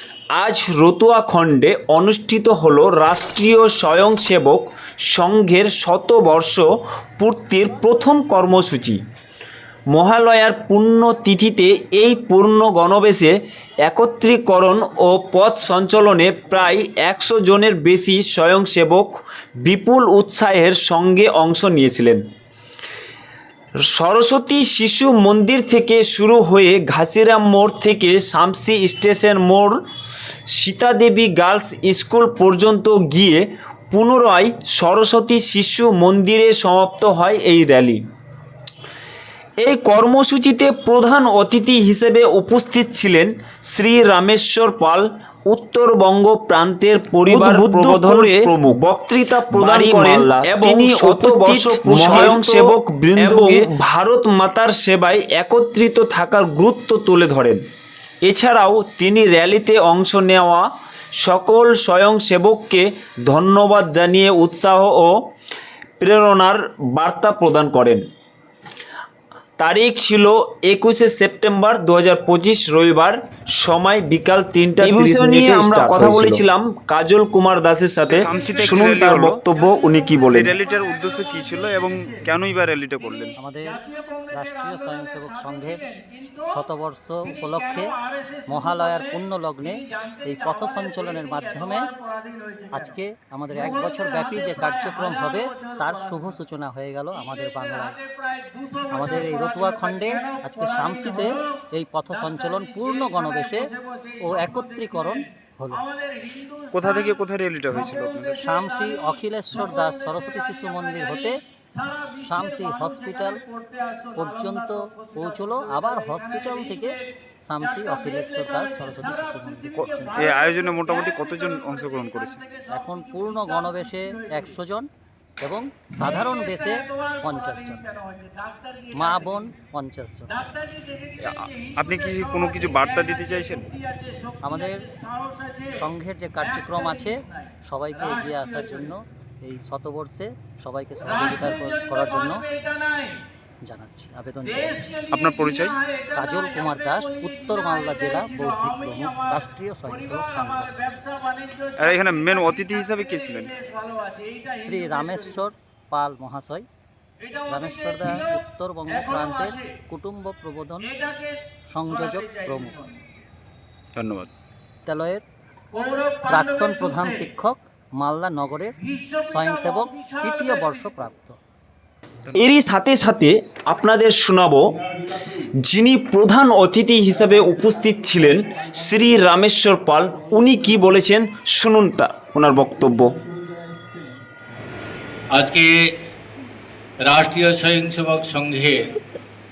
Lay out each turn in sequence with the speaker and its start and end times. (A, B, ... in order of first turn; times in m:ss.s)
0:00.3-0:06.6 A
0:07.2-0:09.0 A
0:09.9-0:22.2 A
0:23.8-0:29.8 A
0:30.5-0:38.0 A
0:39.6-0:57.6 A
0:47.2-0:53.8 B
0:58.2-1:00.7 A
1:01.2-1:05.1 A
1:06.0-1:08.0 A
1:09.6-1:20.5 A
1:14.8-1:16.4 B
1:18.1-1:19.4 B
1:18.4-1:18.8 C
1:19.5-1:22.3 C
1:20.2-1:23.4 B
1:23.0-1:26.6 C
1:23.4-1:23.8 D
1:24.3-1:25.8 D
1:26.5-1:27.9 D
1:27.2-1:33.0 C
1:28.5-1:31.9 D
1:32.7-1:38.0 D
1:33.5-1:36.4 C
1:37.1-2:04.6 C
1:38.9-1:43.7 D
1:44.2-1:45.8 D
1:46.7-1:48.4 B
1:48.4-1:51.4 D
1:52.2-1:53.4 D
1:54.2-2:00.3 D
1:59.7-2:02.4 B
2:02.6-2:07.8 D
2:06.0-2:09.5 C
2:08.9-2:10.3 D
2:10.3-2:18.9 C
2:11.2-2:13.7 B
2:14.4-2:14.8 D
2:15.7-2:22.4 D
2:21.0-2:23.2 C
2:23.6-2:25.0 D
2:24.4-2:35.5 C
2:25.1-2:25.8 B
2:26.1-2:30.7 D
2:31.8-2:33.5 B
2:34.6-2:36.7 D
2:37.2-2:39.8 C
2:37.5-2:40.9 D
2:40.8-2:43.0 C
2:41.7-2:42.8 D
2:44.0-2:44.3 B
2:44.8-2:45.2 D
2:45.7-2:47.3 C
2:46.3-2:51.4 D
2:48.8-2:51.1 C
2:52.4-3:03.1 A
3:05.3-3:05.9 C
3:07.0-3:08.9 C